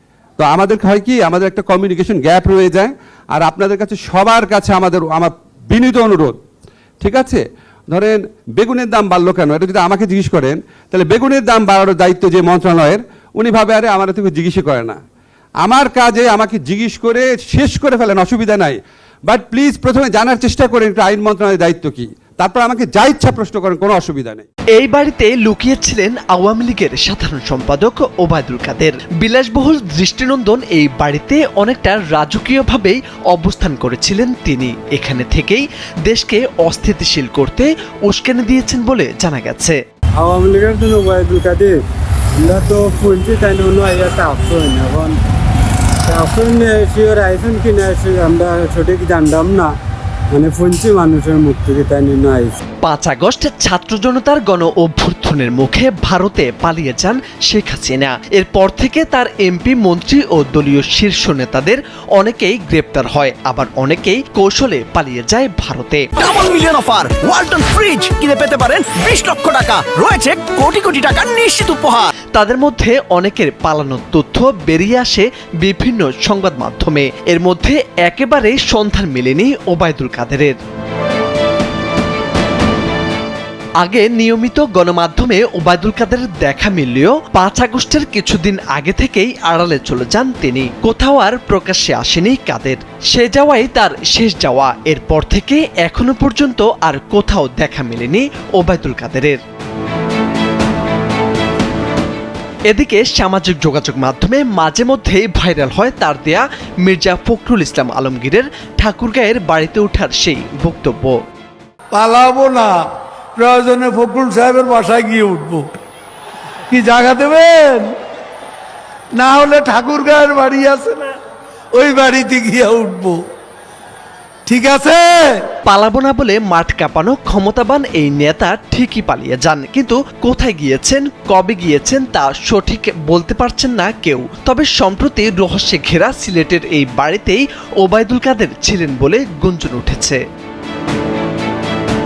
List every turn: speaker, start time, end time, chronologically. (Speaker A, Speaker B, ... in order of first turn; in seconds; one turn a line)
Speaker A: 0.4-6.4
Speaker A: 7.0-15.0
Speaker A: 15.6-24.5
Speaker B: 24.8-39.8
Speaker C: 40.2-41.8
Speaker C: 42.4-45.2
Speaker C: 46.1-49.7
Speaker C: 50.3-52.6
Speaker B: 52.8-66.1
Speaker D: 66.2-72.1
Speaker B: 72.3-80.6
Speaker B: 83.8-99.4
Speaker B: 102.7-111.2
Speaker E: 111.9-112.8
Speaker E: 113.4-115.7
Speaker E: 116.7-117.9
Speaker E: 119.2-121.1
Speaker E: 121.8-123.2
Speaker E: 124.5-125.5
Speaker B: 125.7-140.2